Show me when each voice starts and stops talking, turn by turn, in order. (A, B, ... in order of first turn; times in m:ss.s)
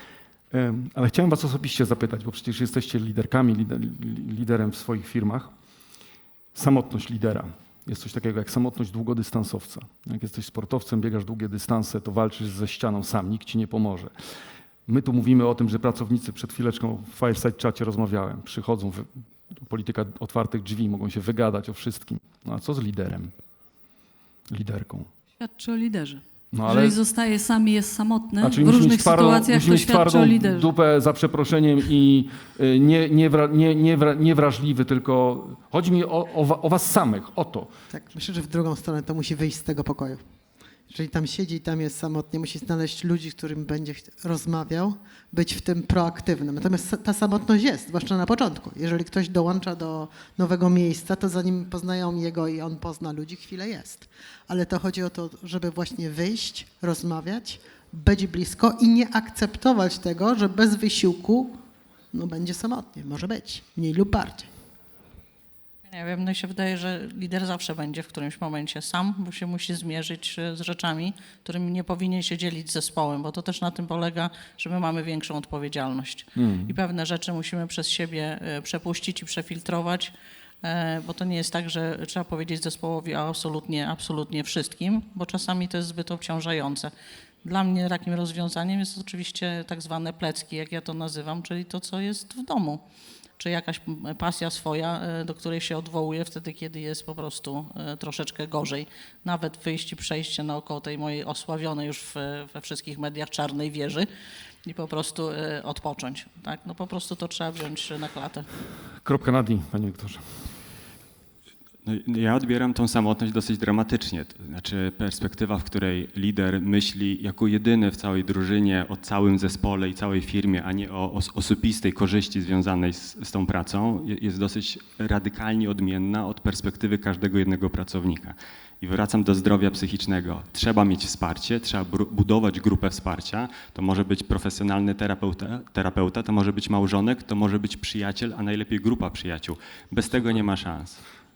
0:00.5-0:05.5 A
0:06.5-0:14.1 A
0:14.9-0:23.3 A
0:24.5-0:25.1 A
0:25.4-0:30.7 B
0:26.5-0:27.0 A
0:28.4-0:37.7 A
0:37.9-0:40.2 C
0:40.9-1:01.6 C
1:02.1-1:04.5 C
1:05.9-1:26.9 D
1:16.4-1:16.7 A
1:27.4-1:32.8 D
1:33.4-1:44.1 D
1:44.6-1:48.5 D
1:49.0-1:50.2 A
1:51.8-2:21.0 E